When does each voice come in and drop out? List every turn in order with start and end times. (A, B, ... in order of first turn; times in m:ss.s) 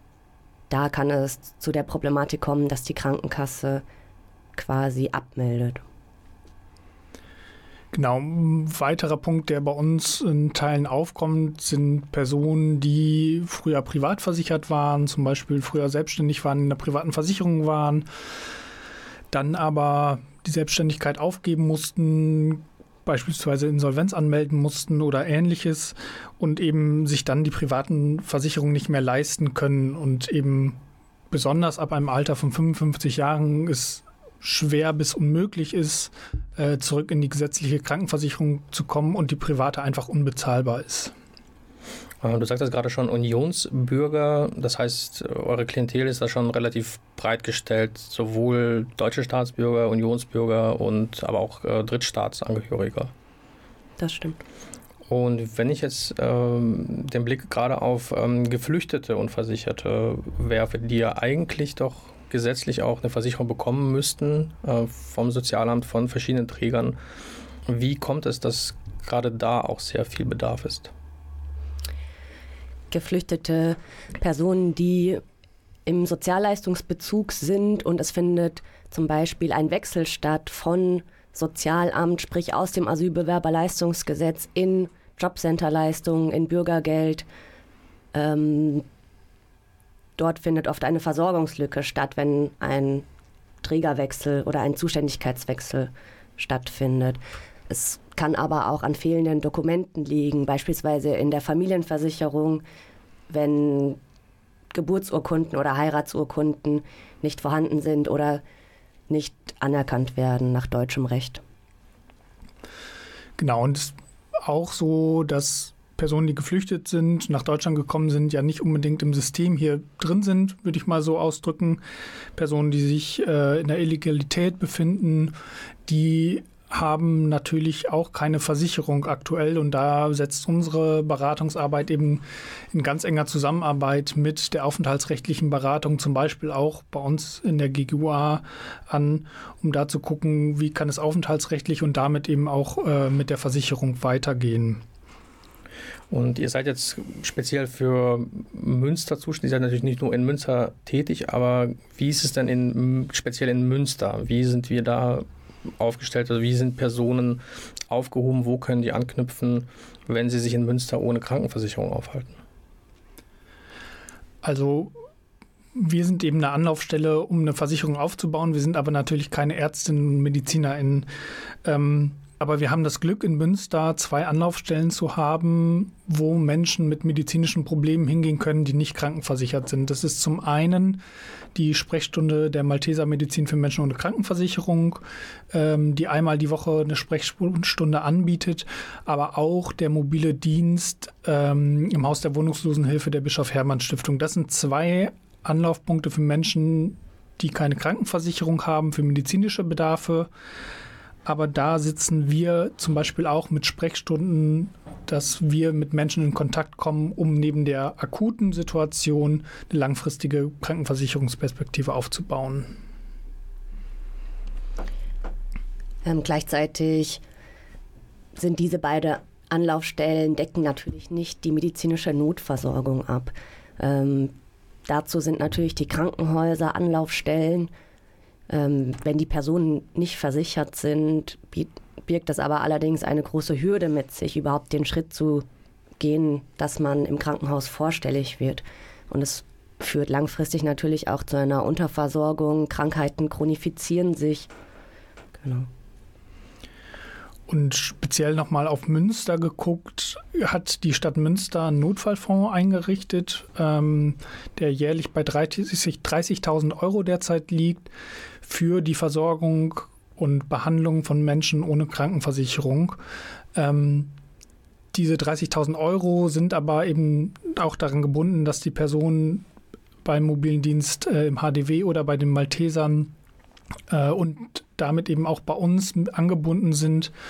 0:00.7-0:03.8 A
0:04.6-0:05.8 A
0:07.9-0:18.1 B
0:19.3-0:41.1 B
0:42.2-0:53.1 C
0:54.0-0:54.4 A
0:55.1-1:07.0 C
1:07.6-1:10.9 C
1:12.9-1:15.2 A
1:15.8-1:27.3 A
1:28.1-1:28.8 A
1:30.2-1:33.0 A
1:33.6-1:42.6 A
1:43.3-1:44.0 A
1:44.7-1:48.4 A
1:49.1-1:51.4 A
1:53.4-2:01.8 B
2:02.4-2:05.3 B
2:05.8-2:24.8 B
2:26.1-2:42.4 C
2:44.4-2:44.9 B
2:45.7-2:51.1 B
2:51.6-3:01.0 B
3:01.5-3:20.3 B
3:21.2-3:32.8 B
3:36.0-3:37.2 A
3:38.4-3:44.3 A
3:44.8-3:47.7 A
3:48.5-3:55.4 A
3:56.0-4:04.5 A
4:05.4-4:05.7 A
4:07.5-4:17.9 B
4:18.4-4:23.0 B
4:23.5-4:24.1 B
4:24.9-4:29.4 B
4:30.0-4:33.1 B
4:33.9-4:37.1 B